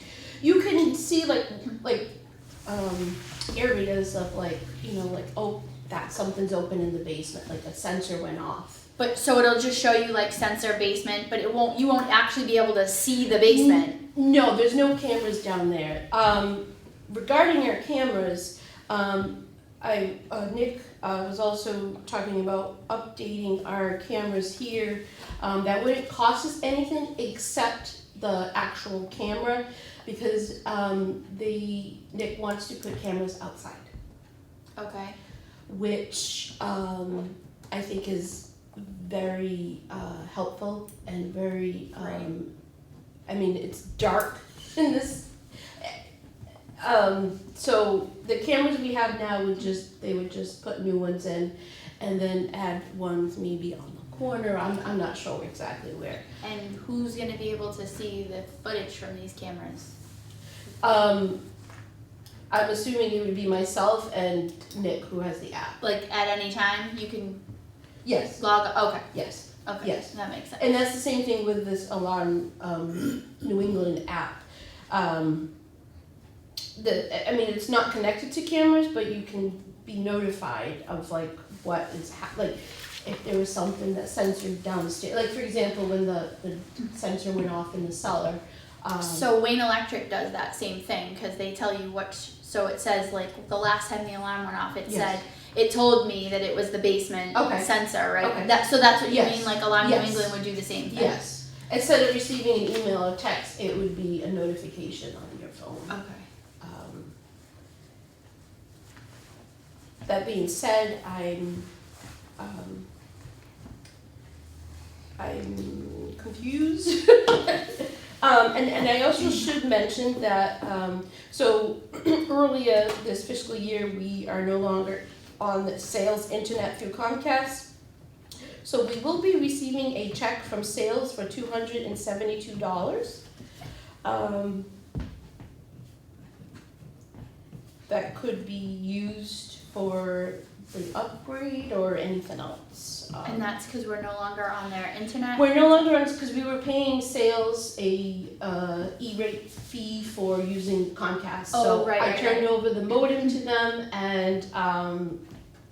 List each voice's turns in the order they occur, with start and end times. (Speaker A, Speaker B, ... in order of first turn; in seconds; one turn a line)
Speaker A: 0.4-2.1
Speaker A: 2.7-8.8
Speaker B: 9.0-14.0
Speaker A: 13.4-33.9
Speaker B: 34.8-35.2
Speaker A: 35.7-42.5
Speaker B: 42.0-42.3
Speaker A: 43.3-46.0
Speaker A: 46.8-56.2
Speaker B: 56.4-59.9
Speaker A: 60.8-61.4
Speaker A: 62.5-65.8
Speaker B: 65.8-67.4
Speaker A: 68.0-68.4
Speaker B: 68.4-69.0
Speaker A: 69.1-75.5
Speaker B: 69.6-70.6
Speaker A: 76.8-89.3
Speaker B: 89.0-101.2
Speaker A: 94.9-95.2
Speaker A: 97.3-97.7
Speaker A: 98.2-98.5
Speaker A: 99.0-100.4
Speaker A: 100.9-106.0
Speaker B: 105.9-106.2
Speaker A: 106.6-107.1
Speaker A: 110.0-111.7
Speaker A: 112.4-112.9
Speaker A: 115.2-127.7
Speaker A: 128.6-133.2
Speaker A: 134.0-134.7
Speaker A: 137.9-143.5
Speaker B: 143.2-145.9
Speaker A: 145.3-155.2
Speaker B: 151.5-152.5